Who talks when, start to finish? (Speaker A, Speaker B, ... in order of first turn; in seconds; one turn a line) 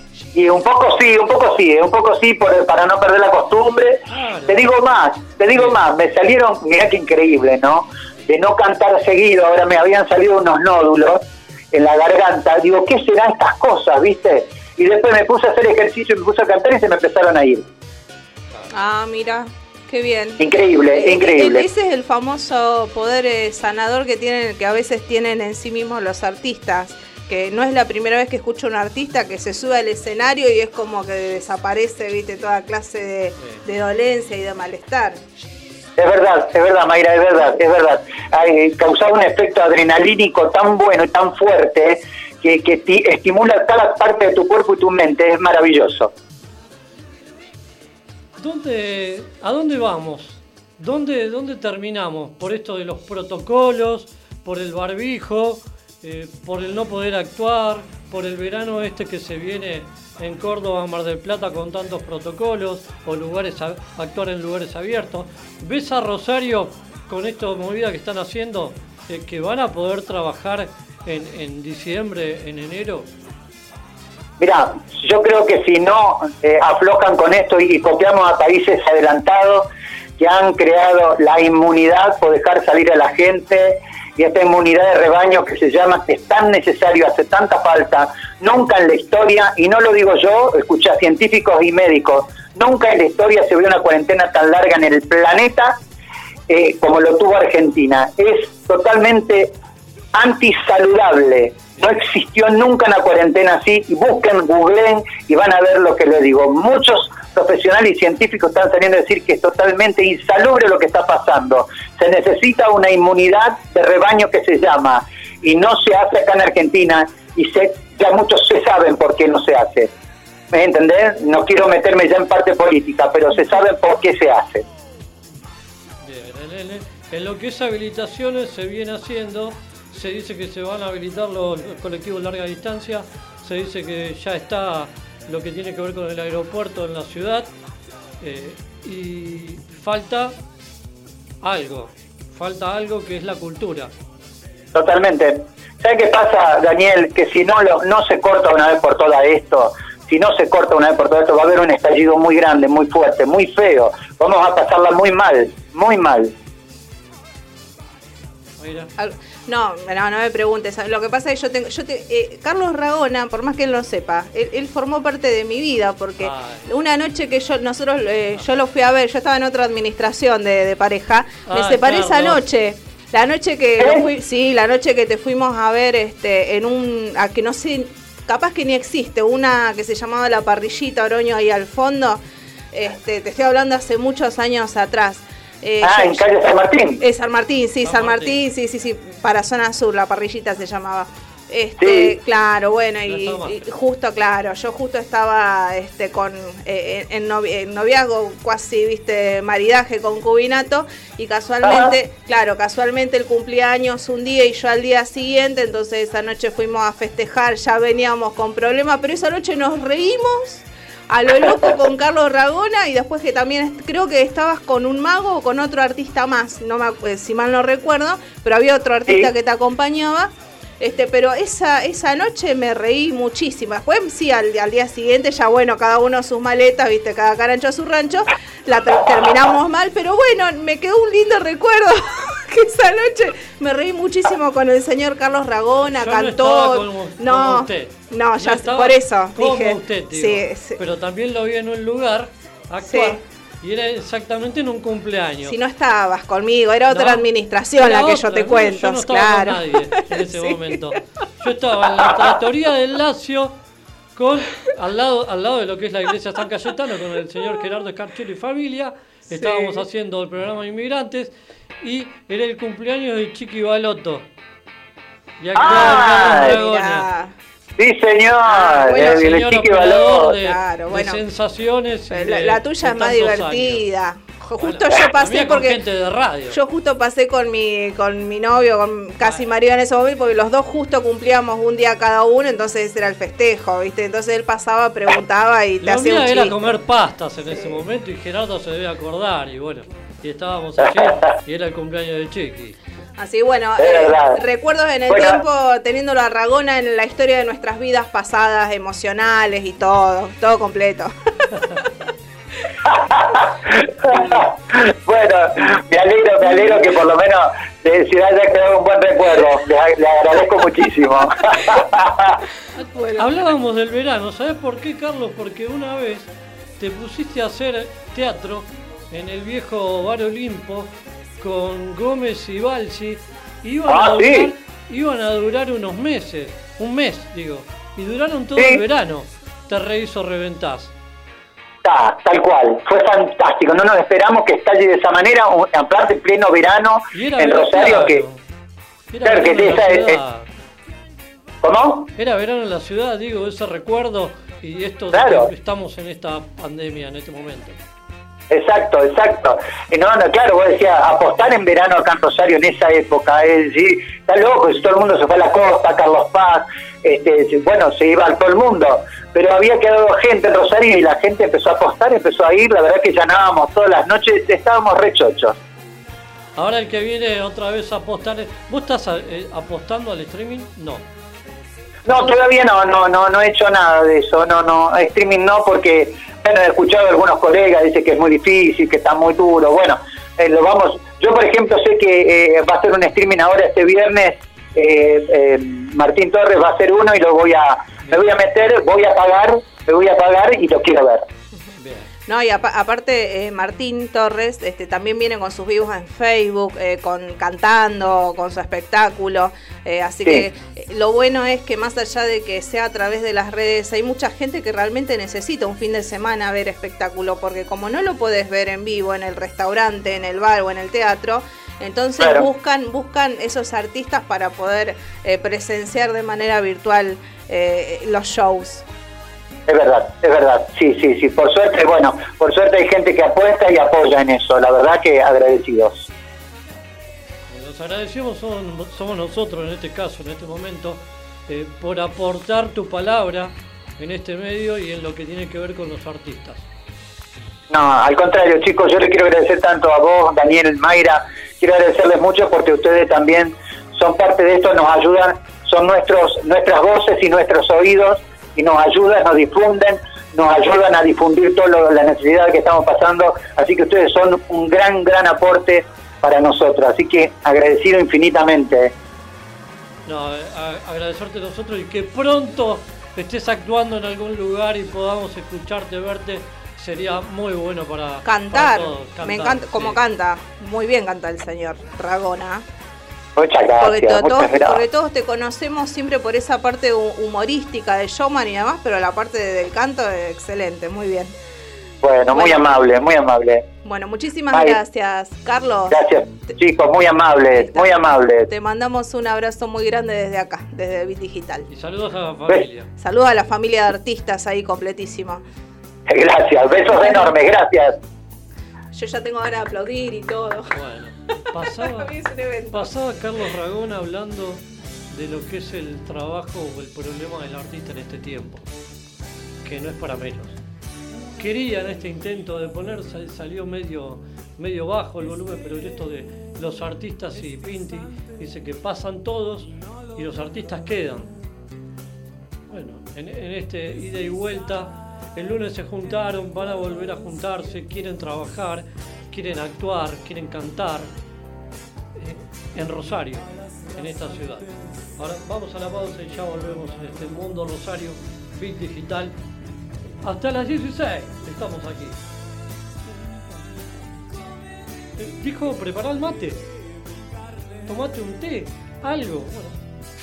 Speaker A: 0.3-17.7
Speaker B: 4.1-4.7
Speaker C: 18.7-20.4
Speaker A: 20.4-21.7
Speaker C: 20.9-35.2
Speaker A: 36.0-46.1
Speaker B: 48.4-73.1
Speaker A: 74.4-79.7
Speaker A: 80.2-95.8
Speaker A: 96.5-99.5
Speaker A: 100.2-119.9
Speaker A: 120.5-124.6
Speaker B: 126.0-137.5
Speaker B: 138.2-140.3
Speaker B: 141.4-143.9
Speaker A: 144.7-156.3
Speaker B: 158.6-158.9
Speaker C: 159.0-182.2
Speaker B: 166.2-166.7
Speaker B: 171.4-172.4
Speaker C: 182.7-240.8
Speaker A: 185.8-187.0
Speaker B: 187.8-188.4
Speaker A: 191.8-192.1
Speaker B: 193.1-193.6
Speaker A: 201.6-201.9
Speaker B: 235.9-245.6
Speaker C: 242.8-243.2
Speaker C: 245.5-251.0
Speaker B: 246.9-253.6
Speaker B: 254.2-264.3
Speaker C: 259.3-259.8
Speaker B: 265.4-267.1
Speaker A: 265.6-266.6
Speaker C: 265.7-267.3
Speaker A: 267.8-270.4
Speaker C: 268.5-269.3
Speaker B: 269.0-273.8
Speaker C: 270.4-271.2
Speaker C: 272.1-275.8
Speaker B: 274.6-276.6
Speaker C: 276.5-286.7
Speaker B: 279.2-279.5
Speaker B: 285.8-292.8
Speaker C: 287.5-287.8
Speaker A: 290.9-291.3
Speaker C: 293.2-301.1
Speaker A: 293.8-294.4
Speaker A: 295.1-295.4
Speaker A: 302.9-312.4
Speaker C: 306.4-306.9
Speaker C: 312.8-313.5
Speaker B: 313.2-330.9
Speaker A: 323.9-324.5
Speaker A: 328.6-328.8
Speaker A: 331.8-338.2
Speaker B: 337.1-338.4
Speaker B: 339.1-340.5
Speaker A: 339.2-340.2
Speaker A: 341.6-342.1
Speaker B: 342.2-347.8
Speaker A: 345.1-345.5
Speaker A: 348.5-365.6
Speaker B: 366.6-371.1
Speaker A: 372.1-391.3
Speaker B: 391.8-392.1
Speaker C: 392.3-418.8
Speaker A: 412.2-412.5
Speaker A: 419.7-426.1
Speaker B: 427.5-436.7
Speaker A: 437.7-458.9
Speaker B: 460.1-470.0
Speaker C: 468.2-472.6
Speaker A: 473.4-474.8
Speaker C: 473.8-481.3
Speaker A: 482.0-483.7
Speaker C: 482.3-482.7
Speaker C: 483.8-486.0
Speaker A: 485.9-488.5
Speaker C: 487.5-491.7
Speaker B: 491.7-492.9
Speaker C: 493.0-495.4
Speaker A: 496.1-498.0
Speaker C: 496.9-497.3
Speaker C: 498.9-500.7
Speaker B: 500.7-502.1
Speaker C: 501.8-502.9
Speaker B: 502.7-508.7
Speaker B: 509.6-510.6
Speaker B: 511.4-521.3
Speaker B: 522.7-531.1
Speaker B: 532.2-539.3
Speaker B: 540.2-542.2
Speaker B: 545.2-546.6
Speaker B: 547.9-549.8